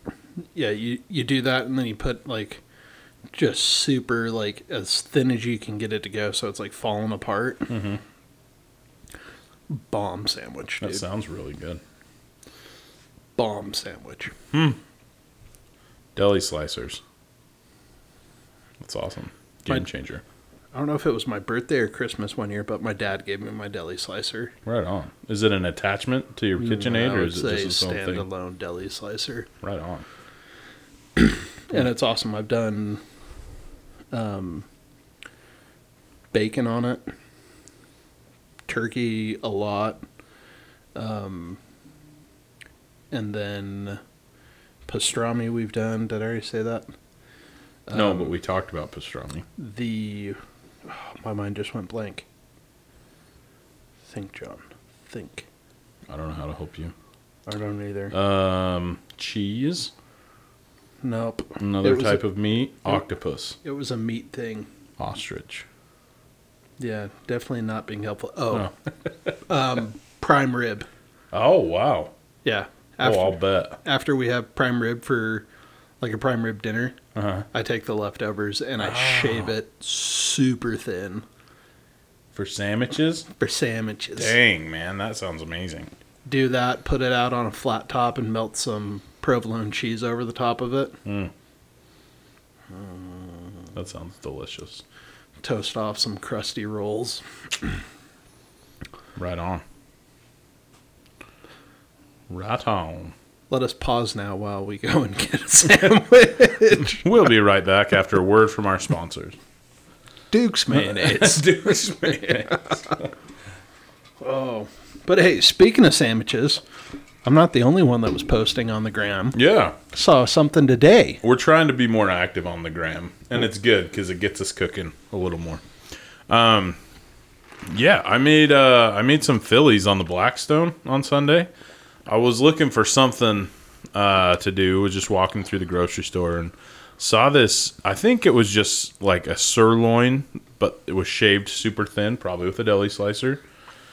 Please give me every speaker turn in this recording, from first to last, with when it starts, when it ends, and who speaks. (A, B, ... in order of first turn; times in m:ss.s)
0:00.5-0:02.6 A
0:03.3-0:07.7 A
0:07.7-0:08.0 B
0:09.7-0:11.0 A
0:10.8-0:11.8 B
0:13.4-0:14.3 A
0:14.5-0:14.8 B
0:16.2-0:17.0 B
0:18.8-0:20.2 B
0:20.7-0:24.5 A
0:24.6-0:28.2 B
0:26.6-0:29.5 A
0:29.6-0:30.0 B
0:31.2-0:33.0 A
0:34.1-0:34.6 A
0:36.3-0:37.0 A
0:38.7-0:40.0 A
0:40.9-0:41.6 A
0:43.1-0:44.0 A
0:44.9-0:46.9 A
0:47.9-0:48.3 A
0:47.9-0:49.4 B
0:49.6-0:52.2 A
0:54.1-0:55.5 A
0:56.1-0:56.9 B
0:57.5-0:58.1 A
0:58.1-0:59.9 B
1:01.0-1:02.2 A
1:01.6-1:03.6 B
1:03.6-1:04.7 A
1:05.0-1:05.6 B
1:06.8-1:08.7 A
1:09.4-1:10.9 A
1:11.3-1:12.1 B
1:12.4-1:15.5 A
1:13.0-1:13.8 B
1:16.0-1:17.0 A
1:17.2-1:17.4 B
1:17.5-1:21.2 A
1:18.8-1:19.5 B
1:22.3-1:23.3 B
1:23.4-1:24.4 A
1:24.2-1:25.9 B
1:26.2-1:31.0 A
1:31.0-1:31.3 B
1:32.7-1:33.7 A
1:33.7-1:34.8 B
1:35.4-1:37.8 A
1:39.2-1:39.6 B
1:42.3-1:43.1 B
1:43.5-1:47.0 A
1:47.0-1:49.4 B
1:50.3-1:53.0 A
1:50.7-1:53.0 B
1:54.2-1:56.6 A
1:57.2-1:59.4 A
1:59.3-1:59.8 B
1:59.9-2:01.2 A
2:01.2-2:05.6 B
2:06.3-2:06.8 B
2:07.7-2:11.5 B
2:12.1-2:23.4 B